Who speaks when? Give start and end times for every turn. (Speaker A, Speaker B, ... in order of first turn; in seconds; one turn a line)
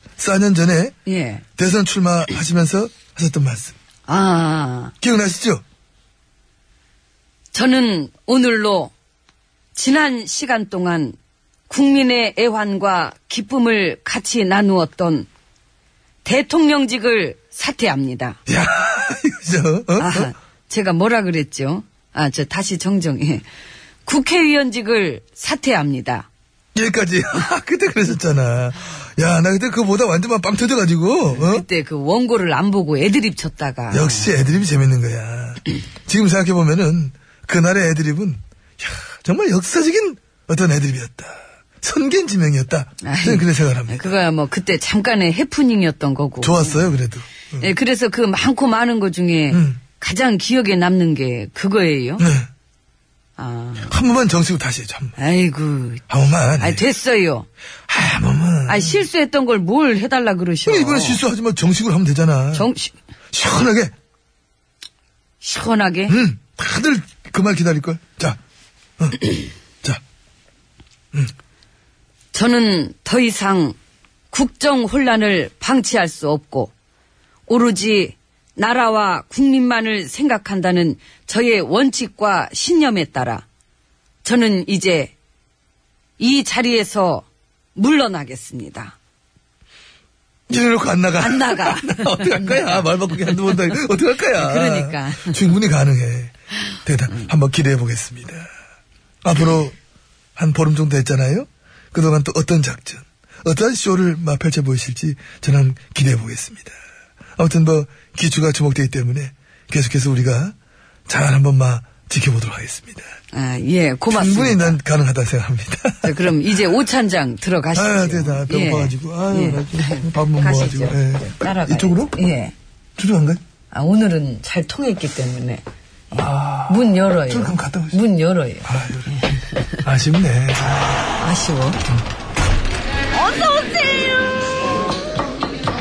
Speaker A: 0.2-0.9
Speaker B: 1.0-1.4
Speaker A: 1.6-3.7
Speaker B: 4.1-4.9
Speaker A: 5.0-5.6
Speaker B: 7.5-8.9
Speaker B: 9.7-11.2
Speaker B: 11.7-15.3
Speaker B: 16.2-18.4
Speaker A: 18.5-20.3
Speaker B: 20.0-23.4
Speaker B: 24.1-26.3
Speaker A: 26.7-31.6
Speaker B: 31.3-34.5
Speaker A: 33.9-44.2
Speaker B: 43.0-46.9
Speaker A: 46.4-47.7
Speaker B: 47.6-52.2
Speaker A: 49.5-49.8
Speaker A: 52.2-52.5
Speaker B: 53.4-53.9
Speaker A: 53.9-55.2
Speaker B: 55.2-56.0
Speaker A: 56.1-56.8
Speaker B: 56.6-57.5
Speaker A: 57.9-59.0
Speaker B: 58.7-61.2
Speaker A: 60.6-62.7
Speaker B: 62.5-62.9
Speaker A: 63.3-63.9
Speaker B: 65.4-66.2
Speaker A: 66.1-68.4
Speaker A: 69.0-69.3
Speaker B: 72.3-73.8
Speaker B: 74.3-76.7
Speaker B: 77.5-83.4
Speaker B: 84.2-85.1
Speaker B: 86.2-89.0
Speaker A: 90.5-98.5
Speaker B: 91.2-93.6
Speaker B: 94.3-95.4
Speaker A: 99.2-99.8
Speaker A: 100.3-106.7
Speaker A: 107.4-110.5
Speaker A: 111.1-113.1
Speaker B: 113.3-114.8
Speaker A: 114.1-116.7
Speaker B: 116.0-122.5
Speaker A: 117.7-122.2
Speaker A: 123.0-123.4
Speaker B: 123.7-125.6
Speaker A: 126.1-128.0
Speaker B: 126.2-129.7
Speaker A: 128.6-131.1
Speaker B: 131.2-131.8
Speaker B: 133.1-134.3